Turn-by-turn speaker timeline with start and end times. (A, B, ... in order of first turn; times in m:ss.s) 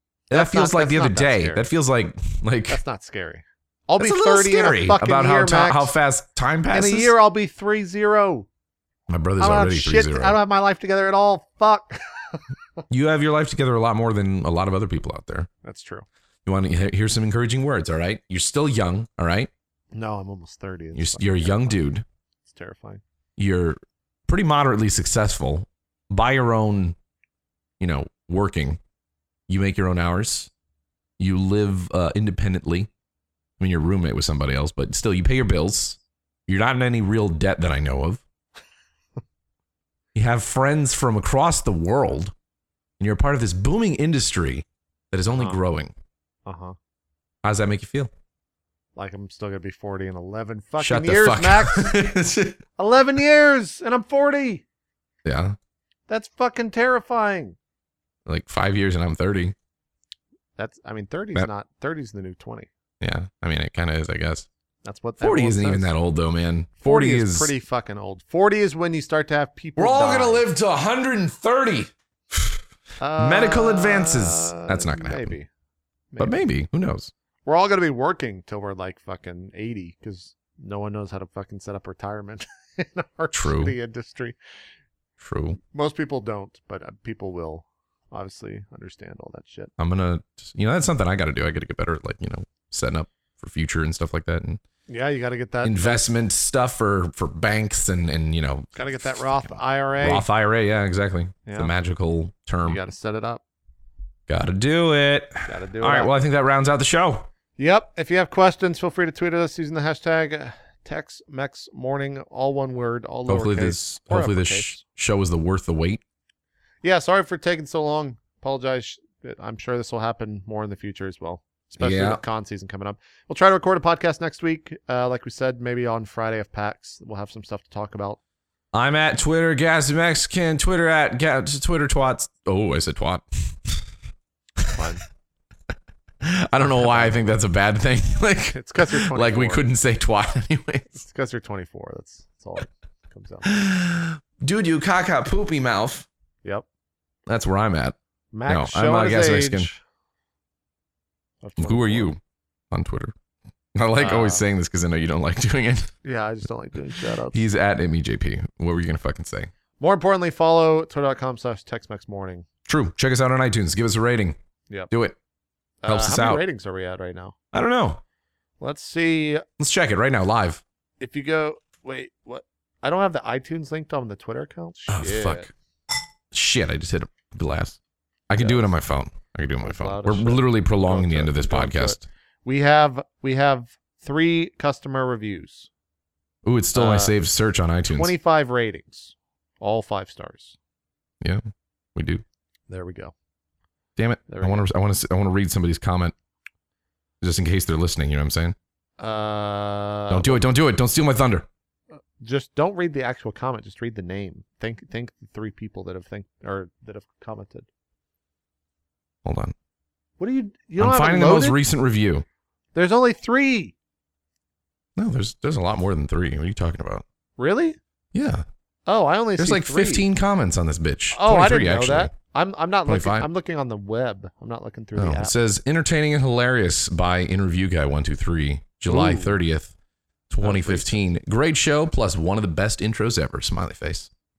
0:00.3-0:02.8 A
0:00.3-0:01.7 B
0:02.7-0:05.9 B
0:04.0-0:07.1 A
0:06.7-0:08.5 B
0:09.1-0:10.4 A
0:09.4-0:12.4 B
0:12.9-0:15.5 A
0:15.6-0:16.0 B
0:16.4-0:19.5 A
0:19.9-0:21.8 B
0:20.9-0:22.0 A
0:22.5-0:23.0 B
0:23.4-0:27.0 A
0:27.8-0:28.8 A
0:29.5-0:30.5 A
0:31.2-0:32.9 A
0:33.6-0:38.2 A
0:40.1-0:42.3 A
0:43.0-0:45.9 A
0:45.3-0:45.6 B
0:46.4-0:46.8 B
0:47.4-0:48.1 A
0:49.0-0:52.0 B
0:50.8-0:52.6 A
0:52.8-0:54.6 B
0:55.2-0:55.6 A
0:56.1-0:57.6 B
0:58.2-0:59.5 A
1:00.6-1:02.7 B
1:03.0-1:04.5 A
1:04.8-1:05.9 B
1:05.2-1:07.5 A
1:06.8-1:10.5 B
1:09.8-1:12.6 A
1:13.0-1:15.5 B
1:13.2-1:15.4 A
1:16.1-1:16.5 B
1:16.2-1:17.1 A
1:17.4-1:24.4 B
1:23.3-1:23.7 A
1:25.2-1:25.6 A
1:25.7-1:29.7 B
1:29.8-1:34.6 A
1:34.9-1:36.0 B
1:35.6-1:42.8 A
1:38.7-1:40.3 B
1:41.4-1:41.7 B
1:42.6-1:43.4 B
1:44.3-1:47.3 A
1:45.5-1:46.1 B
1:47.6-1:54.8 B
1:53.3-1:56.0 A
1:56.8-2:08.2 B
2:01.8-2:02.2 A
2:08.7-2:13.8 A
2:14.7-2:15.0 B
2:16.2-2:21.0 A
2:16.6-2:17.1 B
2:18.5-2:19.6 B
2:20.9-2:23.5 B
2:23.4-2:26.1 A
2:27.3-2:27.9 A
2:28.3-2:29.8 B
2:28.5-2:29.7 A
2:31.4-2:32.1 B
2:31.6-2:32.2 A
2:32.7-2:33.1 A
2:33.7-2:35.9 A
2:34.0-2:34.4 B
2:36.0-2:37.5 B
2:37.3-2:39.5 A
2:39.8-2:42.4 B
2:42.6-2:44.4 A
2:44.9-2:45.2 A
2:45.8-2:47.3 B
2:45.8-2:46.4 A
2:47.5-2:48.0 A
2:48.6-2:49.4 B
2:49.6-2:50.6 A
2:51.0-2:55.5 B
2:54.9-2:55.5 A
2:56.3-3:02.0 A
2:58.4-2:58.7 B
2:59.6-3:05.7 B
3:06.4-3:08.1 A
3:06.7-3:07.2 B
3:07.9-3:10.6 B
3:12.0-3:12.2 A
3:12.7-3:13.1 B
3:14.0-3:16.1 A
3:14.3-3:14.7 B
3:17.2-3:18.5 A
3:19.0-3:20.4 B
3:20.1-3:21.5 A
3:22.2-3:27.7 B
3:29.2-3:29.5 A
3:30.2-3:31.6 B
3:30.8-3:32.2 A
3:32.7-3:33.7 B
3:35.0-3:37.0 A
3:37.4-3:37.8 B
3:38.1-3:38.4 A
3:38.9-3:40.1 B
3:39.4-3:42.1 A
3:41.1-3:45.3 B
3:42.8-3:43.3 A
3:44.9-3:49.7 A
3:48.8-3:49.4 B
3:50.3-3:54.1 A
3:50.4-3:51.0 B